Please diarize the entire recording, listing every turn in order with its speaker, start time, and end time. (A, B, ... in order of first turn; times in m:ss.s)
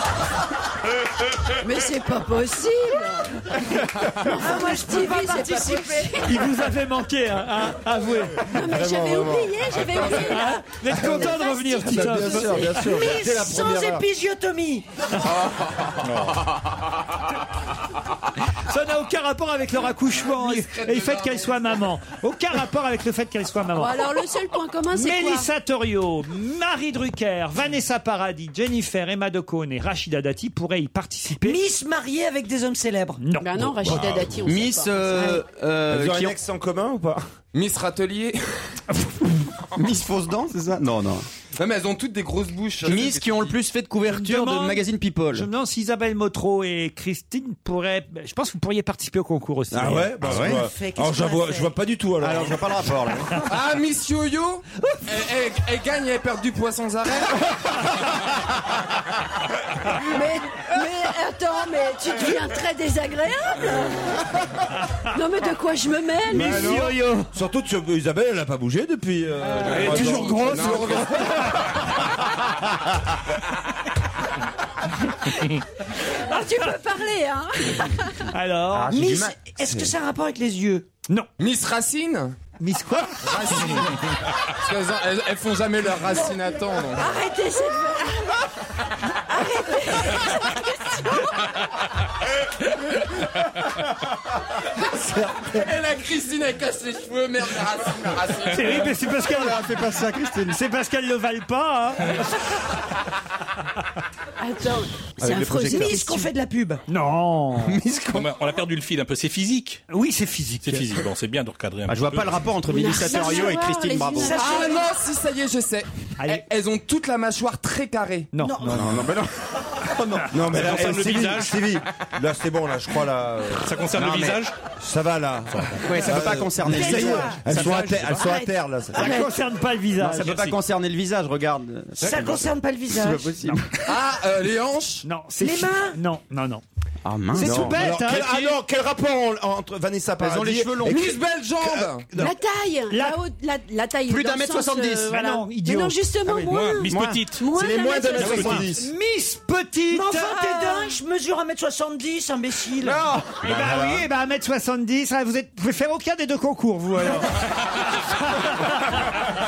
0:01.6-0:03.5 A
0:04.1-0:06.3 A
0:04.2-0:06.5 B
0:06.2-0:08.6 C
0:08.5-0:12.6 A
0:08.5-0:09.8 D
0:10.1-0:12.8 C
0:10.9-0:14.0 D
0:12.2-0:14.9 B
0:16.0-0:16.5 E
0:18.5-0:24.0 C
0:20.3-0:21.5 F
0:23.7-0:25.5 A
0:24.9-0:31.6 C
0:31.4-0:33.3 B
0:33.2-0:33.7 C
0:33.4-0:35.4 A
0:33.9-0:34.1 D
0:34.4-0:36.3 G
0:35.9-0:37.2 D
0:37.5-0:38.6 F
0:39.0-0:39.3 C
0:39.8-0:41.3 G
0:41.6-0:43.5 F
0:42.8-0:45.5 G
0:44.1-0:50.1 C
0:49.7-0:53.0 D
0:49.8-0:50.6 G
0:50.4-0:51.8 B
0:52.2-0:53.4 G
0:53.4-0:57.4 F
1:00.0-1:04.2 A
1:05.0-1:06.9 A
1:06.3-1:11.5 D
1:06.3-1:07.3 C
1:09.6-1:11.8 C
1:09.6-1:10.8 A
1:09.8-1:11.4 F
1:16.2-1:18.2 A
1:18.3-1:19.0 C
1:18.8-1:20.9 B
1:18.9-1:19.3 F
1:21.4-1:22.4 F
1:22.6-1:23.3 C
1:23.2-1:27.2 F
1:26.1-1:28.5 A
1:29.2-1:31.6 A
1:35.5-1:39.0 F
1:38.4-1:39.7 C
1:39.3-1:40.6 G
1:40.5-1:42.4 C
1:44.4-1:46.3 A
1:45.2-1:46.0 D
1:45.2-1:46.8 B
1:46.9-1:47.8 C
1:47.7-1:48.2 G
1:48.1-1:49.8 E
1:49.9-1:50.9 C
1:50.6-1:52.5 E
1:51.9-1:54.4 G
1:52.7-1:54.9 A
1:54.1-1:54.7 B
1:54.4-1:58.3 F
1:56.2-1:56.4 C
1:58.3-1:59.0 C
1:58.4-1:58.9 B
1:58.6-1:59.2 G
1:58.7-1:59.3 D
1:59.8-2:00.6 G
2:00.2-2:03.8 D
2:00.4-2:01.7 E
2:03.6-2:04.6 E
2:03.9-2:04.4 G
2:04.8-2:09.2 D
2:05.5-2:05.9 E
2:05.8-2:08.2 G
2:06.6-2:08.6 B
2:08.9-2:10.5 C
2:10.0-2:13.8 G
2:12.0-2:13.3 B
2:13.8-2:15.0 F
2:15.0-2:16.6 C
2:15.4-2:16.0 B
2:17.0-2:17.8 G
2:17.3-2:18.6 C
2:17.4-2:21.1 D
2:20.2-2:21.2 G
2:20.8-2:22.1 F
2:21.6-2:22.3 D
2:22.1-2:28.7 A
2:22.9-2:23.2 C
2:24.1-2:25.2 G
2:25.1-2:26.0 C
2:26.3-2:27.3 G
2:26.4-2:27.4 E
2:27.5-2:28.9 D
2:28.2-2:30.6 C
2:28.2-2:28.6 G
2:29.9-2:33.1 B
2:30.4-2:30.9 A
2:33.4-2:34.1 D
2:33.4-2:39.0 C